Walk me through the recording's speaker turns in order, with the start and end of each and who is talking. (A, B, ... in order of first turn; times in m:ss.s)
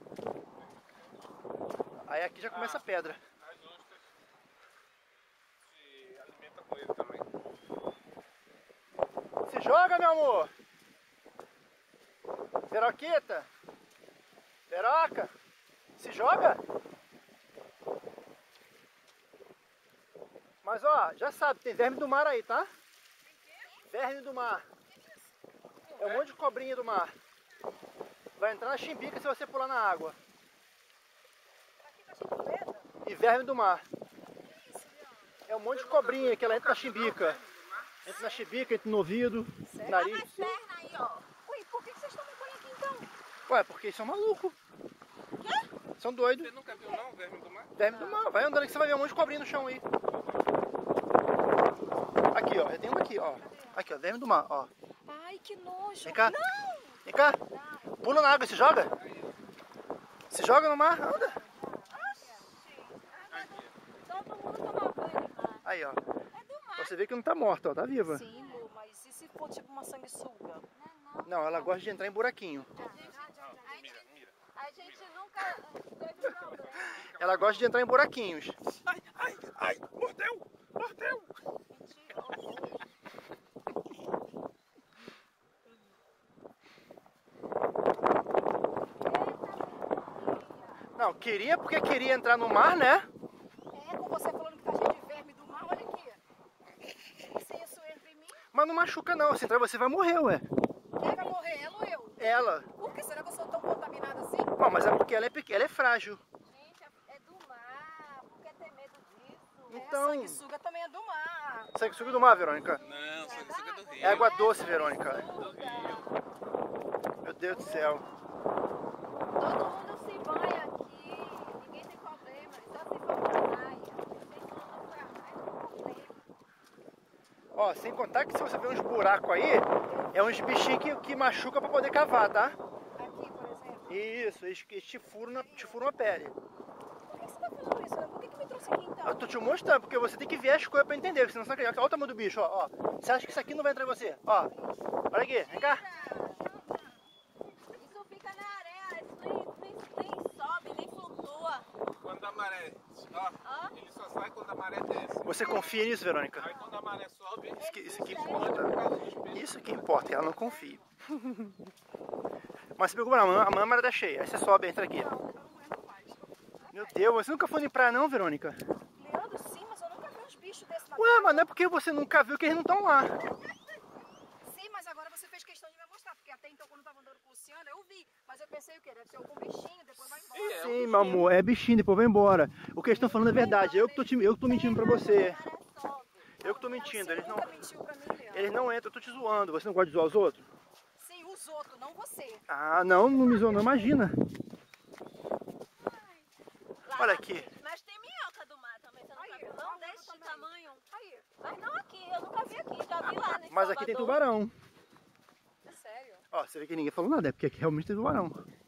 0:00.6-0:01.1 A
0:02.0-0:03.2 B
0:02.5-0:02.9 A
0:03.4-0:04.0 A
0:05.6-0:07.2 A
0:09.5-0:10.5 B
0:12.7-0:13.5 B
0:14.7-0:15.3 B
0:16.0-0:16.6 B
0:20.6-0:22.7 B
0:23.2-0:23.8 C
0:23.8-0:24.6 B
0:26.0-0:27.1 B
0:26.0-0:26.3 A
0:28.4-0:30.2 B
0:31.8-0:32.8 C
0:33.0-0:33.8 B
0:34.4-0:35.2 C
0:35.5-0:37.4 B
0:35.7-0:38.0 A
0:38.0-0:40.6 B
0:38.1-0:38.4 D
0:39.7-0:40.2 C
0:39.9-0:41.2 D
0:41.4-0:43.1 C
0:43.5-0:44.6 B
0:45.4-0:45.6 D
0:46.0-0:46.5 B
0:46.4-0:47.7 A
0:47.8-0:49.8 B
0:47.9-0:48.2 C
0:52.3-0:54.7 B
0:53.4-0:53.8 C
0:55.0-0:57.0 C
0:56.0-0:56.3 B
0:57.0-0:57.4 B
0:57.5-0:57.9 D
0:58.0-0:58.9 B
0:58.9-0:59.4 A
1:00.3-1:01.4 B
1:01.5-1:03.0 C
1:01.8-1:02.1 D
1:03.1-1:05.6 D
1:03.3-1:03.7 A
1:05.6-1:06.0 B
1:06.3-1:07.0 D
1:06.8-1:08.2 B
1:08.0-1:10.6 C
1:08.3-1:08.6 D
1:10.7-1:11.7 D
1:11.2-1:12.7 B
1:12.8-1:13.9 C
1:12.8-1:17.1 D
1:12.9-1:15.1 A
1:16.3-1:17.7 A
1:17.1-1:18.6 B
1:18.9-1:21.3 A
1:21.8-1:22.6 C
1:22.3-1:22.8 D
1:29.0-1:30.8 D
1:31.0-1:33.1 B
1:33.7-1:36.2 C
1:37.2-1:38.4 C
1:38.5-1:40.5 B
1:41.0-1:44.5 C
1:42.2-1:42.7 B
1:44.6-1:46.2 B
1:46.5-1:49.8 D
1:49.7-1:50.4 B
1:49.7-1:51.8 C
1:51.7-1:52.8 B
1:52.0-1:56.1 D
1:52.8-1:54.6 A
1:54.0-1:55.2 B
1:55.2-1:56.2 A
1:57.2-1:58.0 B
1:57.5-1:58.0 D
1:59.3-2:06.2 D
2:07.5-2:12.6 B
2:09.8-2:10.2 C
2:13.0-2:14.0 C
2:13.9-2:16.3 B
2:17.1-2:19.3 C
2:19.0-2:24.5 B
2:25.1-2:25.8 B
2:25.4-2:26.4 D
2:25.8-2:27.0 C
2:27.7-2:31.6 D
2:32.0-2:35.4 A
2:33.4-2:33.7 D
2:35.2-2:36.5 B
2:35.4-2:35.8 D
2:36.4-2:39.8 A
2:37.6-2:38.7 D
2:37.6-2:41.5 B
2:42.8-2:45.1 B
2:44.9-2:47.0 C
2:46.7-2:48.6 B
2:48.9-2:51.5 C
2:50.9-2:53.1 B
2:54.4-3:01.2 C
3:00.3-3:01.2 A
3:00.4-3:05.4 B
3:02.9-3:03.8 C
3:03.8-3:06.6 D
3:06.4-3:07.5 B
3:06.4-3:08.5 C
3:08.3-3:10.4 B
3:11.0-3:12.4 C
3:12.5-3:14.2 B
3:16.8-3:20.8 D
3:16.9-3:17.5 B
3:19.1-3:21.3 C
3:21.4-3:24.2 D
3:23.0-3:24.5 B
3:25.6-3:26.2 C
3:26.3-3:28.4 B